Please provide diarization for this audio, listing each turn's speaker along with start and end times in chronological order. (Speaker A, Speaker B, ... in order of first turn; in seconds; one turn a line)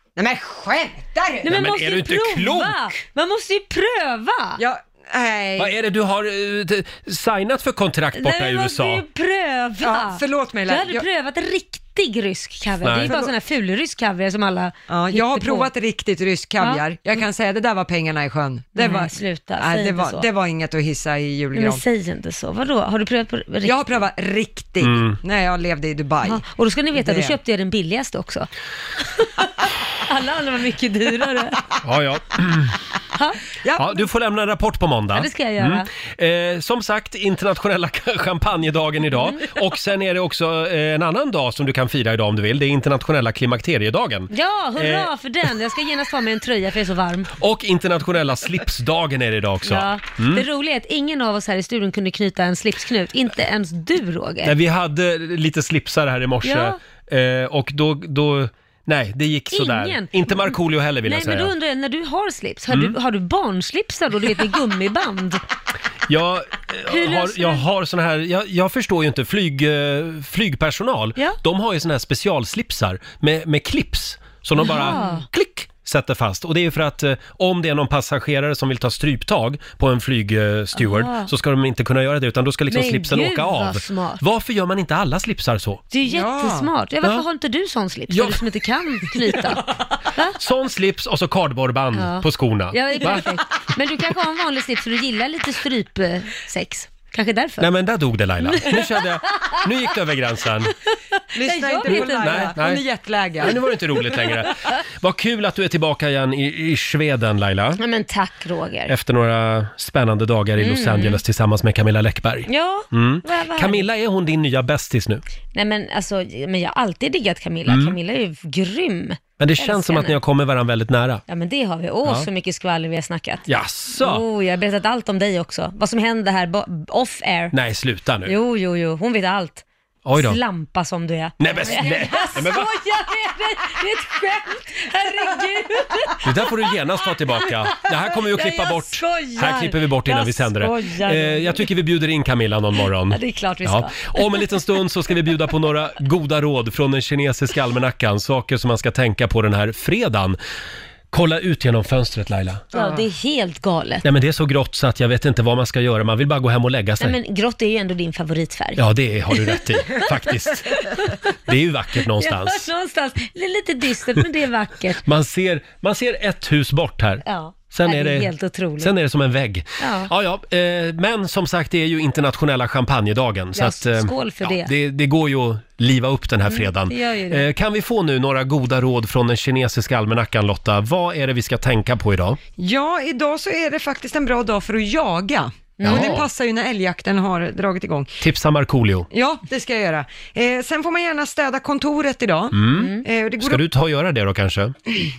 Speaker A: 0.1-1.5
Speaker B: 1.4-4.6
Speaker C: 1.5-2.9
Speaker A: 4.6-5.7
Speaker C: 5.6-9.0
Speaker B: 8.2-15.7
Speaker A: 9.8-11.1
Speaker C: 12.8-13.1
Speaker A: 13.0-13.3
Speaker A: 14.9-21.8
Speaker B: 18.8-20.2
Speaker B: 21.5-23.9
Speaker A: 23.6-27.4
Speaker C: 24.8-25.2
Speaker B: 26.2-28.5
Speaker B: 29.0-31.6
Speaker C: 31.8-32.8
Speaker B: 33.1-33.4
Speaker A: 33.6-34.0
Speaker C: 33.8-45.1
Speaker B: 35.1-35.9
Speaker B: 44.3-47.3
Speaker C: 47.4-50.4
Speaker B: 49.6-54.5
Speaker C: 54.4-61.5
Speaker B: 56.4-56.8
Speaker B: 59.5-65.4
Speaker C: 66.1-85.8
Speaker B: 66.9-67.6
Speaker B: 74.6-75.3
Speaker B: 80.8-81.3
Speaker B: 82.7-84.2
Speaker B: 85.9-90.4
Speaker A: 86.0-86.7
Speaker C: 88.1-88.4
Speaker C: 90.4-93.2
Speaker B: 92.0-97.7
Speaker C: 97.6-100.7
Speaker B: 98.4-99.6
Speaker A: 101.3-103.6
Speaker B: 101.3-102.6
Speaker C: 101.9-102.8
Speaker C: 103.4-107.8
Speaker B: 107.8-108.9
Speaker C: 108.9-115.2
Speaker B: 110.6-111.2
Speaker B: 112.5-113.9
Speaker B: 115.5-120.2
Speaker C: 117.7-118.0
Speaker C: 119.4-121.2
Speaker B: 121.3-127.5
Speaker C: 123.5-124.2
Speaker C: 127.5-128.3
Speaker B: 128.2-129.6
Speaker C: 130.1-130.4
Speaker B: 130.1-141.7
Speaker C: 131.4-132.7
Speaker A: 131.7-132.4
Speaker C: 136.2-150.4
Speaker B: 143.1-144.6
Speaker C: 151.1-152.7
Speaker A: 152.7-153.0
Speaker B: 152.7-154.0
Speaker C: 154.0-157.1
Speaker B: 157.0-160.0
Speaker C: 158.8-160.8
Speaker B: 160.6-161.3
Speaker C: 161.4-162.7
Speaker B: 162.0-165.0
Speaker C: 165.0-182.4
Speaker B: 167.2-168.9
Speaker B: 169.8-170.1
Speaker B: 173.5-174.7
Speaker B: 176.5-177.5
Speaker A: 182.6-188.1
Speaker B: 185.8-186.2
Speaker C: 185.8-186.2
Speaker C: 188.2-189.1
Speaker A: 189.1-193.6
Speaker C: 192.5-194.7
Speaker B: 192.7-193.0